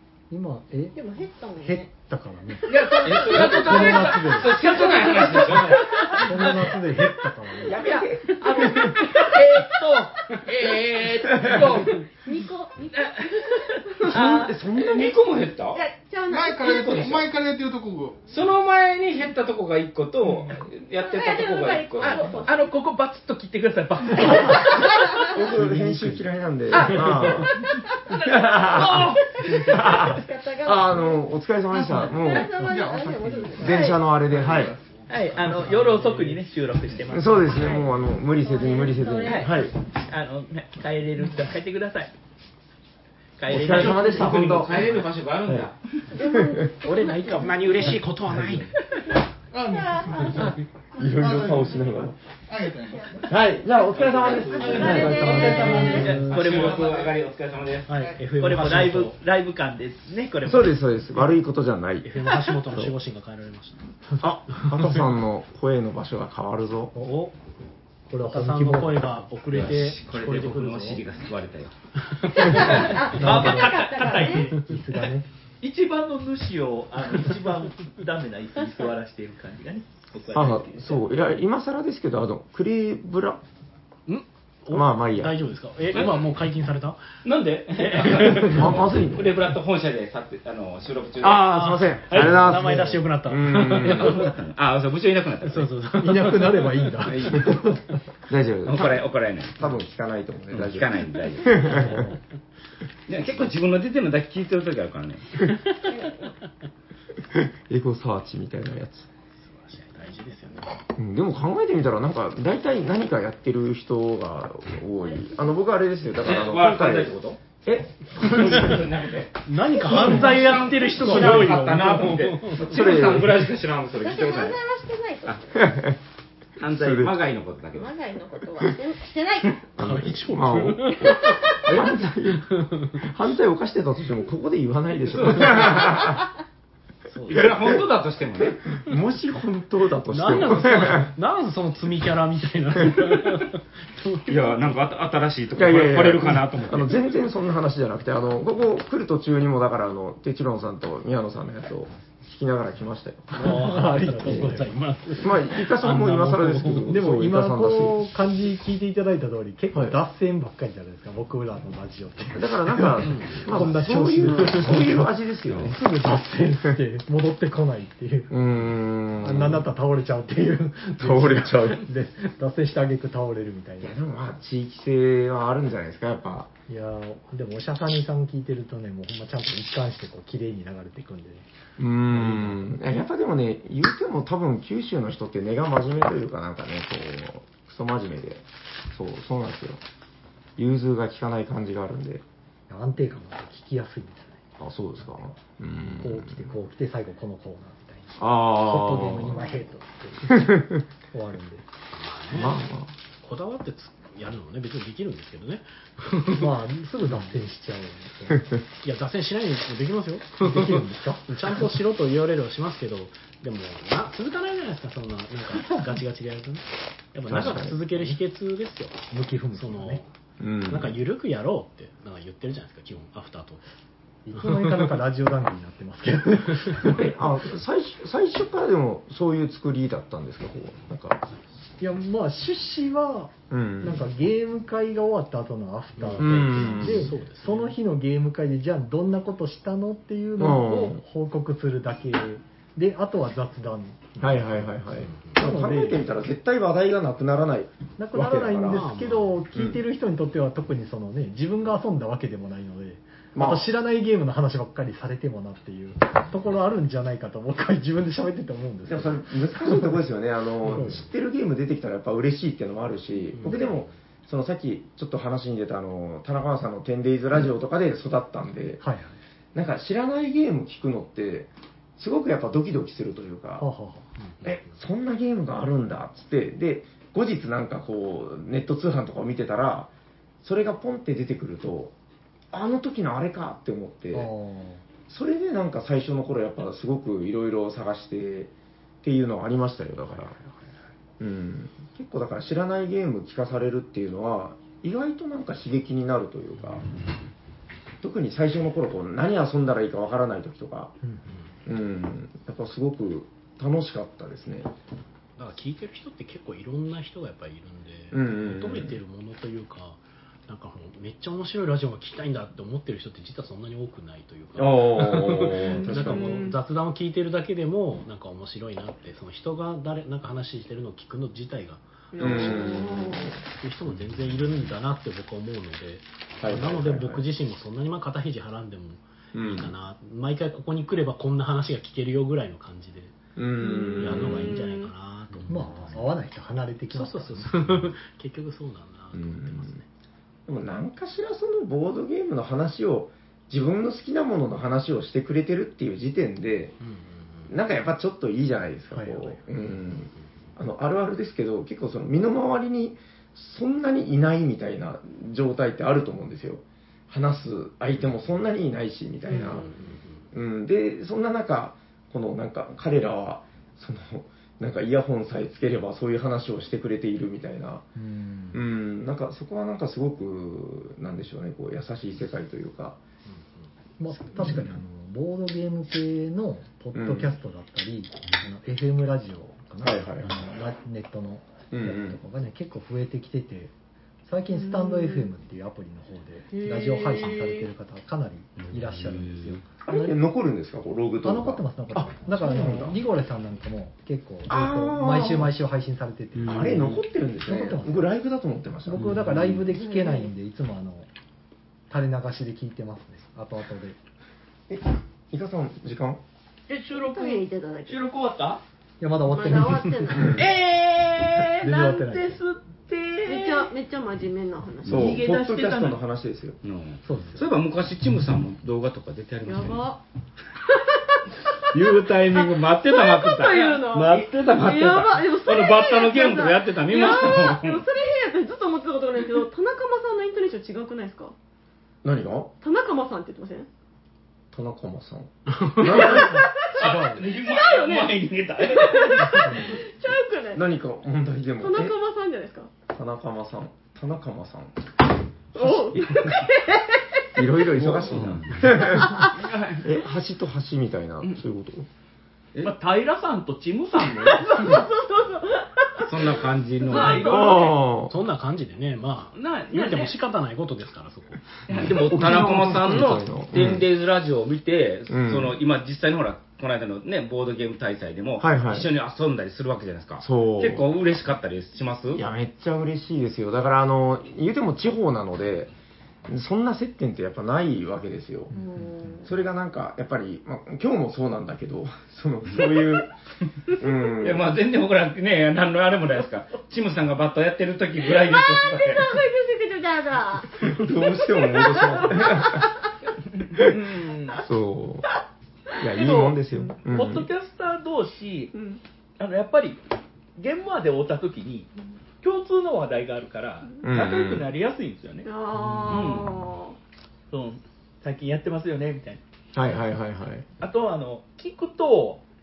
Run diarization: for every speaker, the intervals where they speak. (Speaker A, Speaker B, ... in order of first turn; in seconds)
Speaker A: 0.3-1.0, 1.6-4.8, 6.2-7.9, 25.5-26.2, 48.2-48.7, 55.0-56.4, 68.1-69.3, 72.6-75.3, 96.0-97.9, 101.7-102.1, 153.4-154.8, 156.9-168.4, 169.2-174.0, 176.7-181.5, 182.1-182.8, 192.7-194.4, 195.0-195.4, 195.9-201.7, 206.3-208.5, 210.4-211.7, 217.3-218.2, 219.1-220.0, 224.2-227.1, 231.8-244.8, 245.4-246.0, 248.0-260.0, 260.6-261.1, 263.4-263.7, 268.8-269.2, 273.6-274.1, 284.1-284.8, 301.0-301.3, 335.5-337.9, 348.9-349.3, 367.9-368.6, 374.0-383.7, 384.3-389.6, 391.2-398.1, 398.9-401.1, 401.9-404.0, 409.0-410.4, 411.6-412.4, 417.1-417.5, 435.9-437.3
Speaker B: 0.9-1.9, 2.7-6.2, 11.6-15.1, 15.7-17.1, 20.9-22.8, 24.3-25.4, 27.3-31.3, 32.0-34.1, 37.5-39.7, 46.1-47.8, 49.7-50.5, 54.2-56.1, 72.4-74.5, 105.9-106.3, 124.0-125.4, 127.7-129.7, 131.1-131.7, 315.6-316.6, 322.1-323.4, 333.6-334.9, 359.3-359.8, 384.5-385.3, 386.5-387.7, 399.7-400.3, 406.9-408.0, 409.3-410.4, 413.2-415.2, 419.4-420.0, 420.7-421.2, 422.3-431.4, 432.6-433.7, 436.0-436.7, 437.4-440.7, 441.6-442.7, 445.6-447.5, 448.9-449.3, 454.2-457.2, 478.5-479.3, 488.1-492.7, 498.5-498.8, 505.2-506.8
Speaker C: 2.7-6.7, 7.8-11.9, 12.9-14.1, 22.0-25.1, 26.7-30.0, 35.1-37.6, 39.3-42.1, 43.4-44.4, 54.9-57.1, 58.4-60.8, 72.5-74.6, 75.6-81.1, 406.7-408.6, 410.4-413.7, 414.9-416.0, 436.8-439.5, 449.2-449.9, 452.6-454.7, 456.9-457.8, 459.3-460.2, 493.3-494.4, 496.0-498.5, 499.2-499.8, 500.4-501.7, 502.2-505.3, 505.9-506.3, 507.3-509.2, 510.6-512.2
Speaker D: 3.0-6.3, 10.3-11.9, 14.7-15.8, 16.6-17.2, 18.3-22.5, 43.6-45.8, 53.9-57.9, 69.5-71.7, 87.2-91.8, 93.7-95.8, 98.6-99.6, 100.5-101.9, 103.1-105.4, 116.2-117.4, 118.2-124.6, 126.6-128.0, 135.1-136.1, 137.3-138.6, 144.3-147.0, 388.7-389.6, 416.6-419.9, 421.7-427.9, 436.8-437.8, 447.8-449.1, 456.0-457.4, 461.7-472.2, 482.6-482.9, 484.2-489.2
Speaker E: 7.6-8.9, 14.1-15.1, 25.3-27.5, 28.3-29.1, 29.6-32.5, 33.6-34.8, 37.1-39.7, 43.5-44.9, 46.2-46.6, 50.4-52.1, 53.3-56.3, 60.5-63.0, 64.2-66.9, 80.3-83.4, 84.7-85.4, 88.3-89.4, 91.2-94.3, 97.2-97.6, 98.3-99.0, 99.6-102.1, 107.3-109.1, 111.0-118.8, 121.0-121.5, 122.6-123.4, 125.5-126.0, 126.6-127.1, 129.8-136.2, 137.3-137.8, 138.4-141.1, 145.6-153.7, 155.2-158.0, 159.7-160.0, 162.3-165.8, 168.3-169.7, 171.0-171.8, 173.8-176.5, 181.8-189.8, 190.6-192.2, 194.6-196.5, 198.2-199.6, 200.4-200.7, 202.3-202.9, 217.3-217.8, 220.4-220.9, 226.8-231.3, 233.5-234.1, 236.2-237.1, 240.4-241.0, 244.2-248.9, 249.6-249.8, 253.3-253.7, 258.9-268.8, 269.5-273.7, 274.4-279.9, 280.4-281.9, 282.5-284.3, 285.1-288.5, 289.0-290.4, 291.2-296.9, 298.0-300.9, 301.7-304.7, 308.1-308.9, 314.6-316.4, 322.2-323.3, 326.4-327.2, 329.4-329.7, 333.4-334.6, 339.1-339.7, 340.5-346.8, 347.5-359.7, 360.3-367.9, 368.5-373.0, 374.4-374.8, 376.9-377.3, 379.8-380.5, 381.7-382.2, 389.9-393.0, 394.5-395.5, 396.4-399.7, 404.7-406.2, 410.1-410.4, 414.8-416.6, 432.0-432.5, 434.5-436.4, 440.5-441.9, 442.9-444.8, 445.6-445.9, 447.4-449.3, 449.8-451.9, 457.2-458.1, 461.8-463.9, 465.1-465.6, 468.4-468.9, 470.2-470.9, 472.1-475.7, 476.3-478.5, 479.2-483.1, 483.8-484.5, 490.7-492.7, 494.4-495.1, 495.8-497.3, 503.8-504.4, 509.5-510.4
Speaker F: 16.3-18.2, 31.7-34.8, 49.5-50.6, 51.1-53.3
Speaker G: 35.1-37.4, 46.8-48.7, 56.0-56.3, 57.9-59.2, 62.0-63.8, 64.5-65.0, 67.0-67.3, 68.2-71.0, 72.0-72.8, 84.1-87.0, 87.8-88.9, 91.2-94.3, 95.4-97.1, 101.7-102.1, 109.4-110.8, 119.5-122.7, 129.8-132.0, 132.5-133.0, 137.1-137.8, 140.1-144.7, 153.3-157.0, 163.0-163.7, 164.4-164.7, 201.9-202.6, 203.2-206.5, 208.8-220.1, 220.7-223.6, 224.4-225.0, 236.0-237.8, 245.0-245.4, 248.7-249.4, 263.3-263.9, 274.2-274.7, 305.4-322.8, 323.4-333.1, 334.0-336.2, 336.9-339.8, 346.8-347.6, 359.8-360.3, 435.5-435.8, 458.1-461.4